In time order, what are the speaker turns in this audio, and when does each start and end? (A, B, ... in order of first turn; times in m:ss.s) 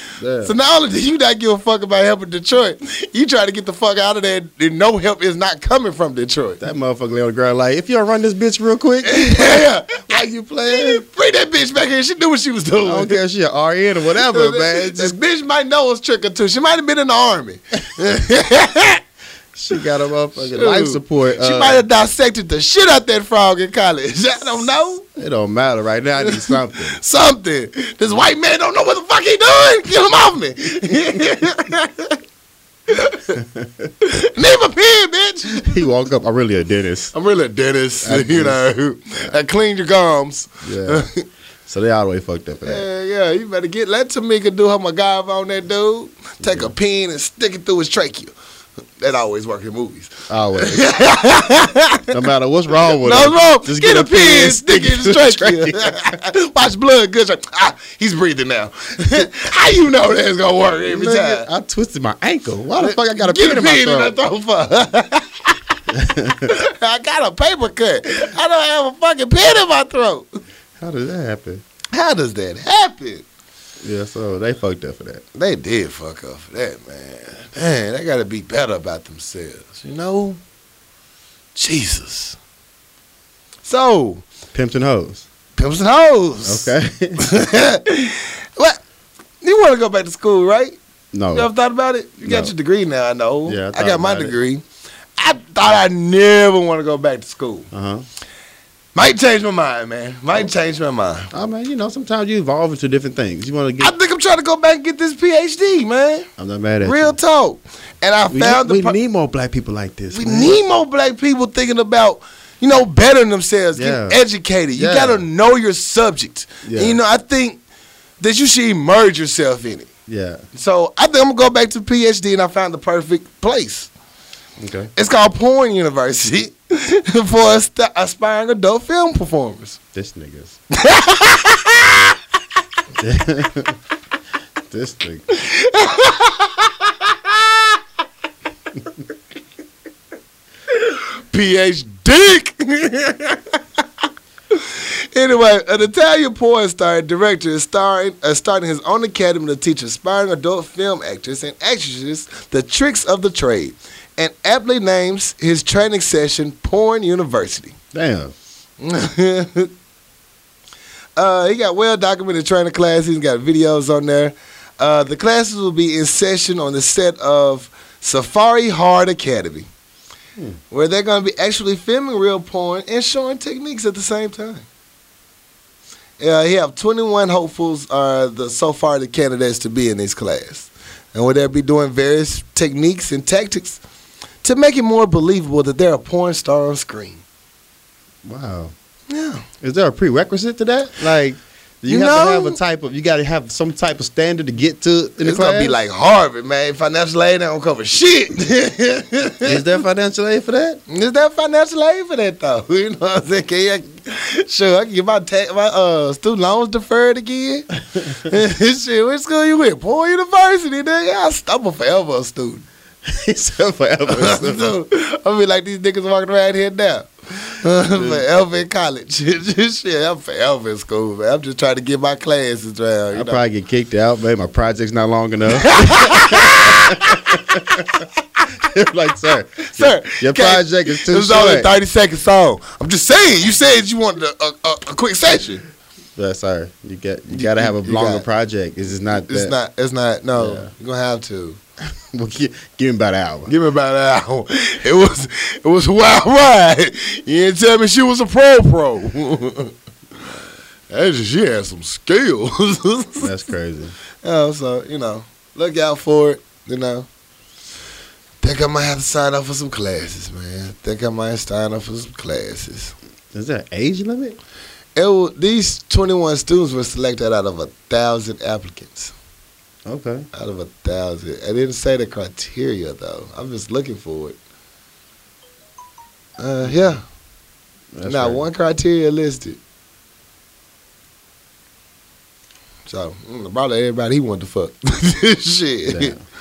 0:00.2-0:00.5 A
0:00.4-0:06.6 B
0:06.6-0:11.0 A
0:09.0-0:13.2 B
0:12.8-0:15.2 A
0:14.2-0:19.0 B
0:19.6-0:21.8 A
0:20.5-0:25.0 B
0:25.2-0:27.0 A
0:26.2-0:32.2 B
0:32.9-0:33.4 B
0:33.4-0:33.9 A
0:34.0-0:35.8 B
0:35.6-0:37.1 A
0:37.1-0:41.2 B
0:38.0-0:38.7 A
0:40.6-0:41.1 A
0:41.7-0:42.9 A
0:42.6-0:48.3 B
0:46.4-0:46.7 A
0:49.0-0:52.1 B
0:50.3-0:50.9 A
0:52.1-0:56.1 A
0:52.8-1:01.5 B
1:00.9-1:04.1 A
1:02.8-1:05.8 B
1:05.9-1:06.5 A
1:06.5-1:10.3 B
1:10.8-1:11.6 A
1:11.9-1:13.3 B
1:13.8-1:15.2 A
1:15.4-1:20.4 B
1:21.6-1:22.4 B
1:23.6-1:24.2 B
1:24.5-1:25.3 A
1:25.6-1:28.8 B
1:26.4-1:27.3 A
1:29.4-1:30.8 B
1:31.1-1:31.5 A
1:31.3-1:34.6 B
1:32.2-1:32.5 A
1:33.5-1:34.4 A
1:35.2-1:37.7 B
1:37.7-1:38.0 A
1:39.0-1:41.3 B
1:41.3-1:43.9 A
1:43.8-1:46.3 B
1:46.4-1:47.2 A
1:46.8-1:49.0 B
1:48.3-1:50.6 A
1:50.1-1:57.6 B
1:53.8-1:54.2 A
1:54.8-1:55.2 A
1:56.6-1:57.0 A
1:58.2-1:59.9 B
2:00.1-2:00.4 A
2:00.5-2:03.9 B
2:04.6-2:04.9 A
2:05.0-2:09.8 B
2:09.9-2:10.6 A
2:10.7-2:12.2 B
2:13.0-2:13.8 A
2:14.7-2:15.3 A
2:15.3-2:17.8 B
2:20.7-2:23.8 B
2:24.5-2:37.8 B
2:37.9-2:38.3 A
2:38.8-2:39.7 B
2:41.2-2:49.7 B
2:50.7-2:54.7 B
2:56.2-3:03.8 B
3:04.4-3:07.2 B
3:08.2-3:08.7 A
3:09.1-3:09.4 B
3:09.6-3:15.8 A
3:11.9-3:12.6 B
3:15.2-3:19.6 B
3:19.4-3:20.8 A
3:20.9-3:27.7 B
3:28.2-3:32.7 B
3:33.1-3:34.7 A
3:34.1-3:43.4 B
3:38.0-3:38.2 A
3:43.1-3:47.9 A
3:45.5-3:47.8 B
3:48.6-3:51.7 A
3:49.7-3:55.6 B
3:56.2-3:59.5 A
3:57.3-3:58.2 B
3:59.3-4:01.6 B
4:00.4-4:00.7 A
4:02.1-4:03.5 A
4:03.5-4:09.7 B
4:10.9-4:13.3 B
4:13.2-4:14.0 A
4:14.2-4:17.1 B
4:18.4-4:23.0 B
4:23.3-4:24.4 A
4:25.0-4:29.1 B
4:29.9-4:30.3 A
4:30.3-4:34.4 B
4:36.4-4:37.0 B
4:38.0-4:38.4 A
4:38.0-4:39.6 B
4:42.9-4:46.2 B
4:45.9-4:46.2 A